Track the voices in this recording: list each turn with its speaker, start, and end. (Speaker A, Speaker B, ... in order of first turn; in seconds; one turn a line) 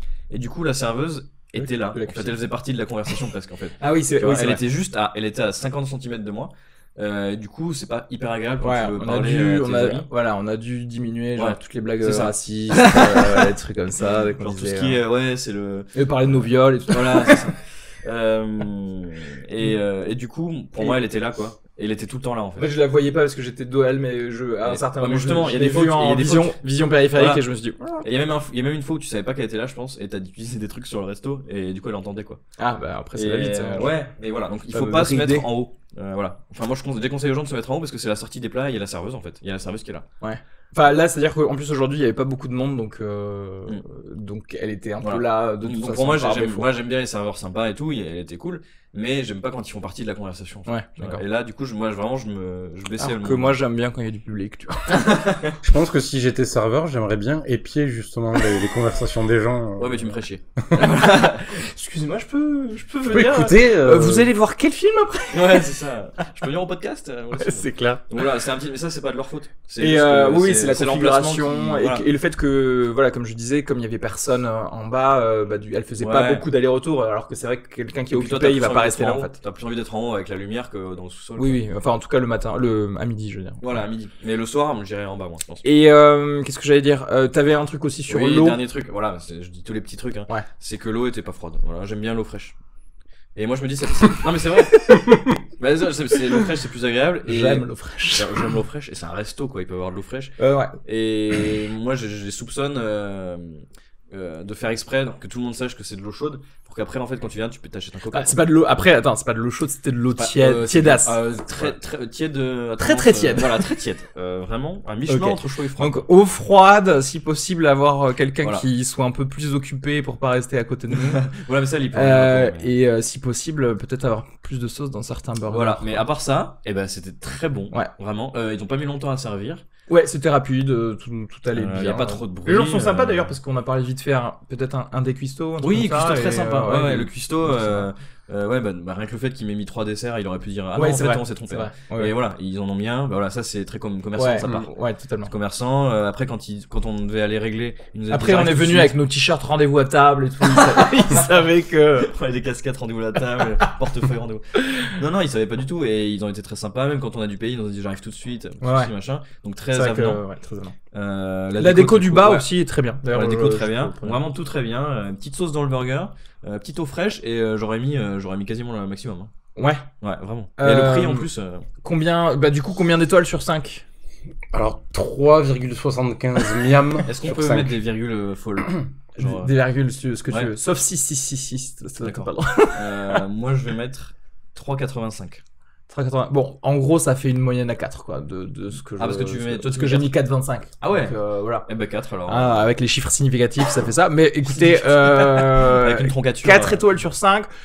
Speaker A: 0.3-10.1
Speaker B: 1.6-2.4
Speaker B: 3.8-4.6
Speaker B: 8.6-15.0
Speaker A: 11.4-13.5
Speaker A: 14.4-22.7
Speaker B: 15.9-17.5
Speaker B: 22.6-28.1
Speaker A: 24.6-27.4
Speaker A: 28.0-32.4
Speaker B: 32.6-33.9
Speaker A: 33.1-40.0
Speaker B: 34.7-35.5
Speaker B: 40.2-46.7
Speaker A: 45.0-53.5
Speaker B: 50.7-51.2
Speaker B: 53.0-55.3
Speaker A: 54.9-55.4
Speaker C: 55.6-60.2
Speaker A: 59.8-61.5
Speaker B: 60.8-65.7
Speaker C: 63.1-64.3
Speaker A: 65.3-72.0
Speaker B: 67.3-68.2
Speaker B: 69.8-79.3
Speaker A: 76.0-76.5
Speaker A: 78.1-81.6
Speaker B: 81.4-83.8
Speaker A: 83.6-85.7
Speaker B: 85.6-88.6
Speaker A: 88.1-92.6
Speaker A: 93.4-94.8
Speaker A: 95.6-108.4
Speaker B: 97.3-98.5
Speaker B: 100.4-100.8
Speaker B: 108.1-111.8
Speaker A: 110.2-116.1
Speaker B: 112.8-113.7
Speaker B: 115.1-121.2
Speaker A: 118.4-118.7
Speaker A: 120.9-122.7
Speaker B: 121.9-126.0
Speaker A: 125.5-129.6
Speaker B: 129.9-137.9
Speaker A: 131.5-133.3
Speaker A: 135.6-144.7
Speaker B: 140.8-142.1
Speaker B: 144.2-145.3
Speaker A: 145.2-148.9
Speaker B: 148.1-152.1
Speaker A: 150.5-151.3
Speaker A: 152.0-160.2
Speaker B: 153.4-153.7
Speaker B: 158.6-158.9
Speaker B: 159.7-160.8
Speaker A: 160.9-162.5
Speaker B: 161.6-164.2
Speaker A: 163.1-169.3
Speaker B: 169.6-169.9
Speaker A: 170.0-171.7
Speaker B: 170.6-171.3
Speaker B: 171.8-173.9
Speaker C: 174.5-177.1
Speaker A: 177.1-179.5
Speaker B: 177.2-177.7
Speaker B: 179.2-183.2
Speaker A: 182.0-185.4
Speaker B: 185.9-191.7
Speaker A: 189.0-190.1
Speaker A: 190.8-192.6
Speaker B: 192.3-197.5
Speaker A: 194.4-196.8